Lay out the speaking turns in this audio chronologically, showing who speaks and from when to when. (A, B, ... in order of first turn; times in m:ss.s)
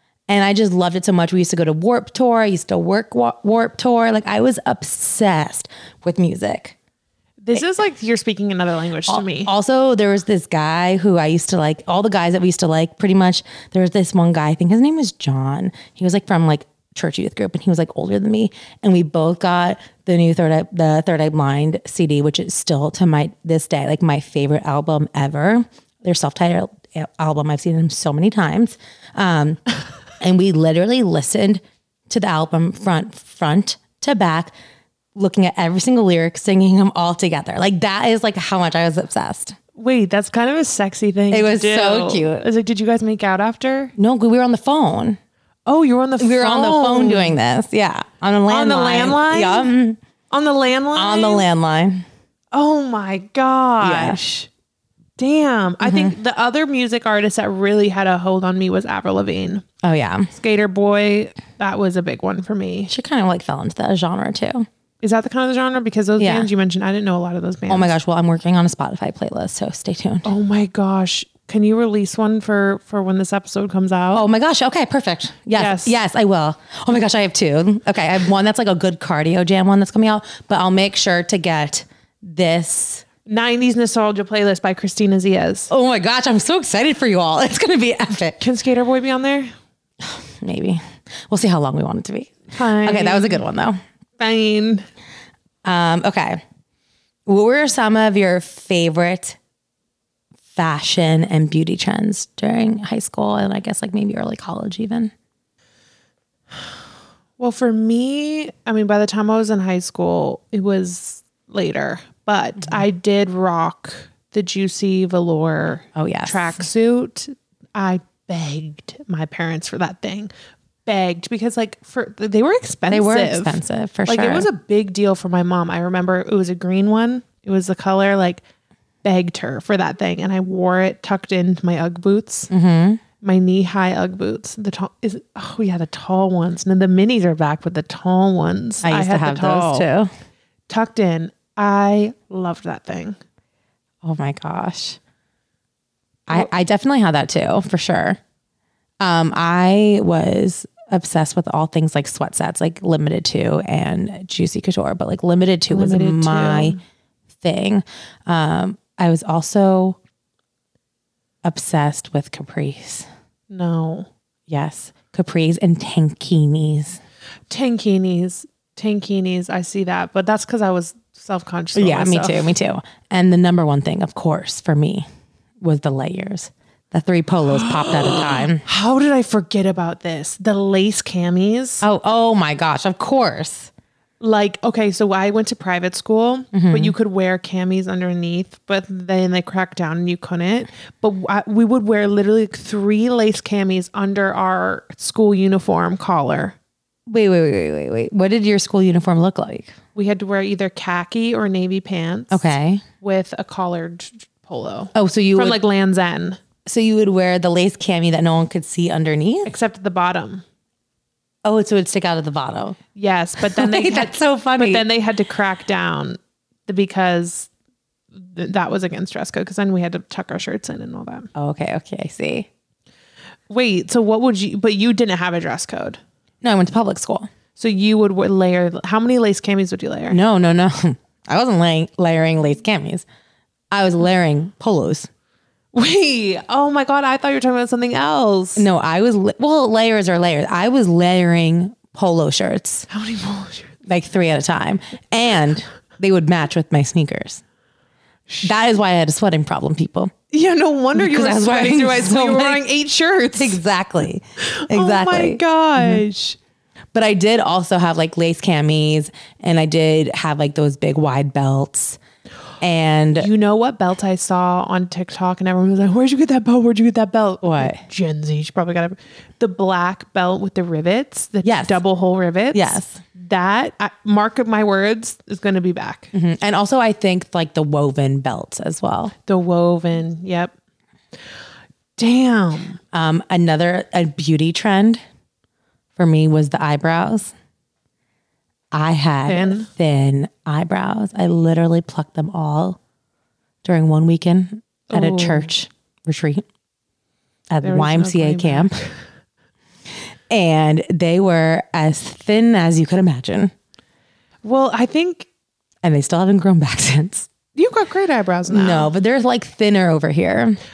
0:00.3-0:06.8 A
0:07.4-0:09.5 B
0:09.1-0:29.6 A
0:30.2-0:34.5 A
0:35.2-0:39.6 A
0:39.8-0:44.0 B
0:41.3-0:42.5 A
0:44.0-0:45.2 A
0:45.7-0:47.4 B
0:46.2-0:50.0 A
0:48.5-0:49.7 B
0:50.3-0:51.4 B
0:51.0-0:52.1 A
0:52.5-0:54.5 B
0:53.8-0:54.2 A
0:55.2-0:59.6 B
0:55.8-0:56.2 A
0:59.8-1:00.3 A
1:00.3-1:02.9 B
1:02.9-1:04.7 A
1:05.0-1:07.9 B
1:06.2-1:06.5 A
1:07.7-1:10.3 A
1:10.2-1:14.2 B
1:14.1-1:23.0 A
1:15.5-1:16.0 B
1:23.3-1:25.7 B
1:25.7-1:28.4 A
1:28.4-1:29.5 B
1:30.0-1:33.8 A
1:32.5-1:33.4 B
1:34.2-1:34.8 B
1:35.6-1:36.4 A
1:37.3-1:39.4 A
1:40.5-1:45.1 A
1:47.4-2:00.3 B
1:56.0-1:56.6 A
2:00.9-2:08.4 B
2:02.9-2:04.5 A
2:09.0-2:12.5 B
2:12.5-2:13.0 A
2:13.2-2:19.9 B
2:18.8-2:20.1 A
2:20.7-2:23.2 B
2:24.0-2:25.0 A
2:26.3-2:28.2 A
2:29.0-2:36.8 A
2:35.7-2:36.8 B
2:37.4-2:40.0 A
2:41.4-2:43.1 A
2:43.5-2:44.1 B
2:44.5-2:47.0 A
2:47.5-2:52.5 B
2:51.7-2:55.1 A
2:55.6-2:58.6 A
2:57.5-3:01.9 B
3:01.8-3:03.7 A
3:04.2-3:16.6 B
3:06.5-3:07.0 A
3:17.1-3:19.8 A
3:20.0-3:22.5 B
3:22.3-3:22.8 A
3:23.0-3:26.4 B
3:24.9-3:25.6 A
3:26.6-3:29.5 A
3:29.5-3:30.4 B
3:31.4-3:32.8 A
3:33.0-3:37.5 B
3:33.4-3:34.9 A
3:38.2-3:41.3 B
3:41.4-3:42.5 A
3:43.5-3:46.0 B
3:46.4-3:47.3 A
3:47.6-3:50.2 B
3:50.1-3:53.0 A
3:53.7-3:55.1 A
3:55.7-3:58.7 B
3:58.6-4:02.9 A
4:02.9-4:03.7 B
4:03.8-4:07.4 A
4:08.4-4:10.1 A
4:10.3-4:13.6 B
4:11.0-4:12.6 A
4:13.4-4:16.0 A
4:14.4-4:16.4 B
4:16.9-4:22.0 A
4:22.6-4:23.3 A
4:23.2-4:36.1 B
4:27.4-4:27.8 A
4:31.4-4:31.8 A
4:32.5-4:33.0 A
4:36.1-4:39.1 A
4:39.2-4:40.5 B
4:42.0-4:42.8 B
4:42.9-4:45.0 A
4:46.0-4:47.3 A
4:48.7-4:52.8 A
4:49.3-4:49.7 B
4:53.6-4:56.4 A
4:54.9-4:55.5 B
4:57.5-4:58.8 A
4:57.6-4:59.0 B
5:00.3-5:03.5 A
5:04.4-5:05.3 B
5:05.8-5:07.3 A
5:07.6-5:08.9 B
5:08.5-5:10.6 A